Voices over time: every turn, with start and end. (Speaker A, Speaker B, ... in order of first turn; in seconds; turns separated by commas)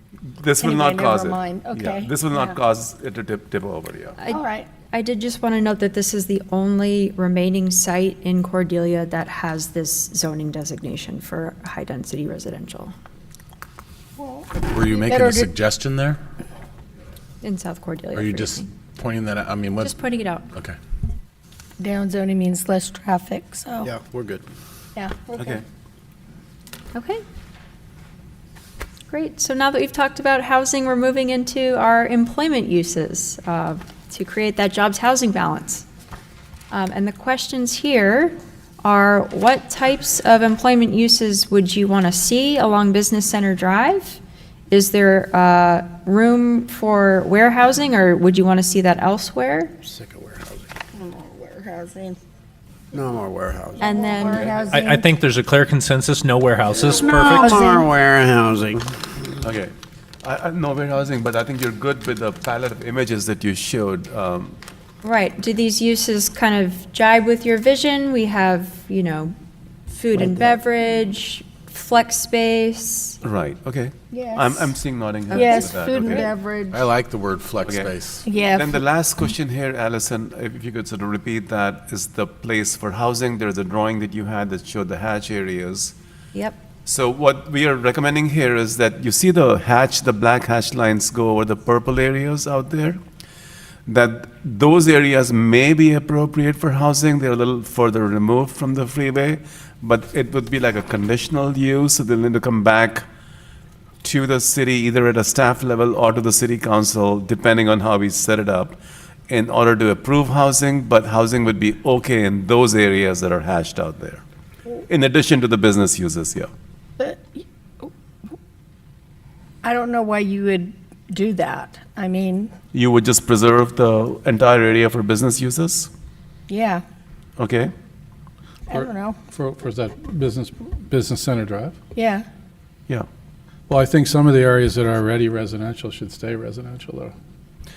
Speaker A: 0.3-4.2, Speaker B: 0.6-2.6, Speaker C: 4.2-12.9, Speaker B: 4.3-4.7, Speaker B: 14.2-15.5, Speaker D: 14.6-16.2, Speaker C: 17.4-18.7, Speaker D: 18.1-20.0, Speaker C: 19.8-20.4, Speaker B: 21.8-23.9, Speaker E: 23.8-24.4, Speaker B: 24.9-25.6, Speaker A: 25.4-25.6, Speaker C: 26.9-27.2, Speaker C: 29.1-35.9, Speaker C: 36.7-49.7, Speaker E: 49.9-50.4, Speaker B: 50.9-52.2, Speaker E: 52.9-53.9, Speaker B: 53.8-55.1, Speaker C: 53.8-54.5, Speaker A: 54.3-54.6, Speaker F: 54.7-57.8, Speaker E: 56.8-58.8, Speaker B: 57.6-57.9, Speaker A: 59.4-64.6, Speaker C: 65.0-69.3, Speaker C: 69.9-73.2, Speaker E: 70.1-70.6, Speaker A: 73.2-76.3, Speaker B: 74.1-74.7, Speaker C: 75.3-76.3, Speaker B: 75.3-76.8, Speaker D: 76.7-78.3, Speaker A: 77.6-85.9, Speaker B: 78.2-78.8, Speaker A: 86.8-93.0, Speaker A: 93.9-103.1, Speaker A: 104.0-108.8, Speaker A: 109.3-114.2, Speaker A: 114.9-116.5, Speaker B: 117.0-117.9, Speaker B: 119.6-122.5, Speaker A: 122.7-125.9, Speaker B: 126.5-126.8, Speaker A: 127.4-127.7, Speaker B: 128.7-129.2, Speaker G: 128.7-131.8, Speaker B: 131.9-132.2, Speaker G: 133.7-137.1